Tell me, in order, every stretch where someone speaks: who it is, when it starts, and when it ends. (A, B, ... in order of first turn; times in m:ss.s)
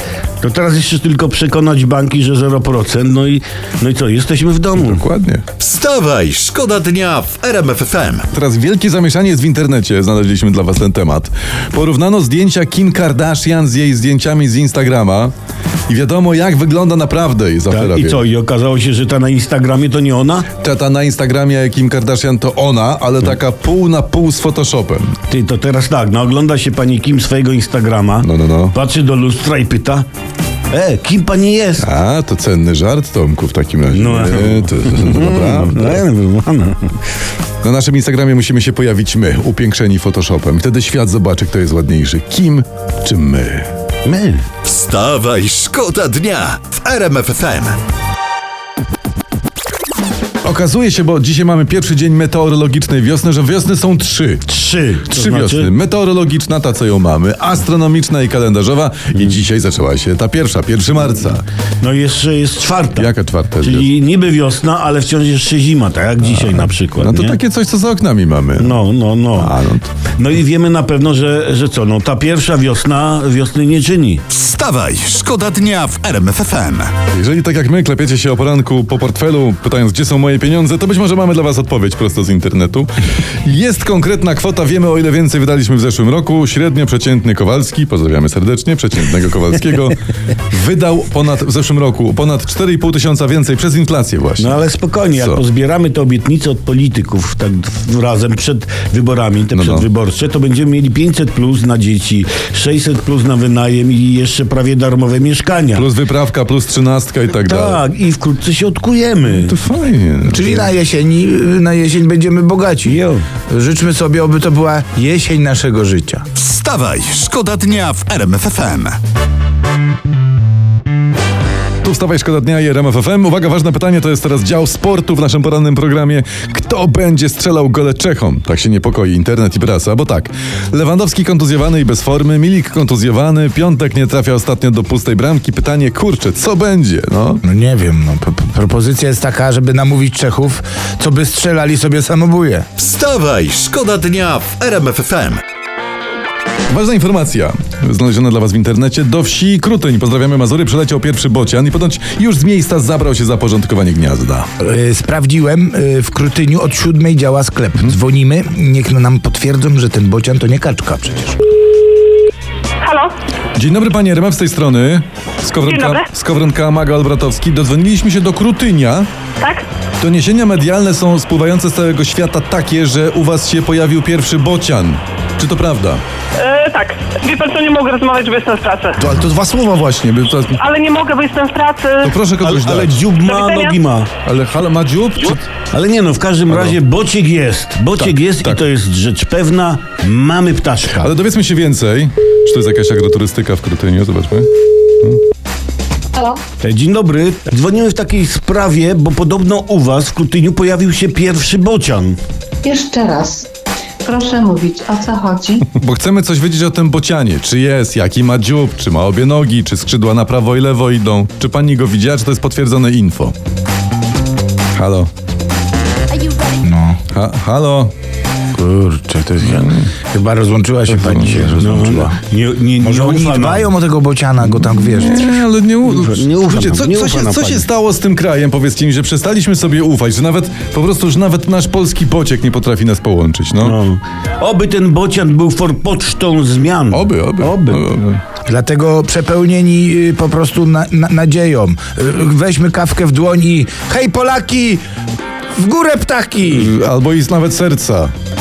0:00.4-0:05.0 A
0:04.8-0:05.4 B
0:05.6-0:08.3 C
0:08.3-0:15.3 B
0:15.9-0:18.2 B
0:17.7-0:20.5 A
0:20.6-0:25.1 B
0:25.3-0:30.1 A
0:28.2-0:28.8 B
0:30.7-0:31.8 A
0:31.8-0:36.0 B
0:33.9-0:37.1 A
0:37.6-0:43.7 B
0:44.0-0:44.4 A
0:44.6-0:47.8 C
0:50.4-0:54.4 B
0:54.5-0:55.7 A
0:55.1-1:01.4 B
1:01.8-1:07.4 A
1:03.0-1:03.9 B
1:06.3-1:08.8 B
1:08.6-1:09.5 A
1:09.4-1:09.9 B
1:10.1-1:14.2 A
1:14.3-1:16.9 C
1:17.1-1:22.9 B
1:23.4-1:34.6 B
1:34.4-1:45.9 A
1:35.2-1:35.4 B
1:39.5-1:39.9 B
1:45.7-1:47.8 B
1:47.4-1:49.5 A
1:49.3-1:50.5 B
1:50.2-1:56.2 D
1:52.9-1:53.2 A
1:56.4-1:59.0 C
2:01.8-2:17.4 B
2:17.4-2:22.6 D
2:22.8-2:25.4 C
2:26.7-2:34.5 B
2:34.6-2:41.4 D
2:42.8-2:43.1 E
2:43.5-2:49.1 B
2:45.6-2:46.1 E
2:49.4-2:49.6 E
2:50.0-2:56.0 B
2:56.4-2:59.0 E
2:59.0-3:00.6 B
3:00.6-3:02.2 E
3:02.0-3:03.0 B
3:02.4-3:04.1 A
3:03.2-3:03.8 E
3:04.2-3:05.4 B
3:05.7-3:11.1 A
3:06.5-3:06.8 B
3:08.0-3:08.6 B
3:11.0-3:14.5 B
3:16.1-3:16.4 F
3:16.6-3:22.2 A
3:22.6-3:23.5 F
3:24.0-3:25.7 F
3:25.7-3:33.3 B
3:34.7-3:35.1 B
3:36.5-3:37.0 D
3:37.1-3:37.9 B
3:38.5-3:42.2 D
3:39.4-3:39.9 B
3:40.9-3:41.6 B
3:41.6-3:43.7 A
3:42.8-3:45.3 D
3:44.7-3:53.8 B
3:45.8-3:47.7 A
3:53.6-3:57.8 A
3:56.9-3:58.2 B
3:58.5-4:04.8 D
4:05.5-4:06.7 D
4:06.5-4:08.1 B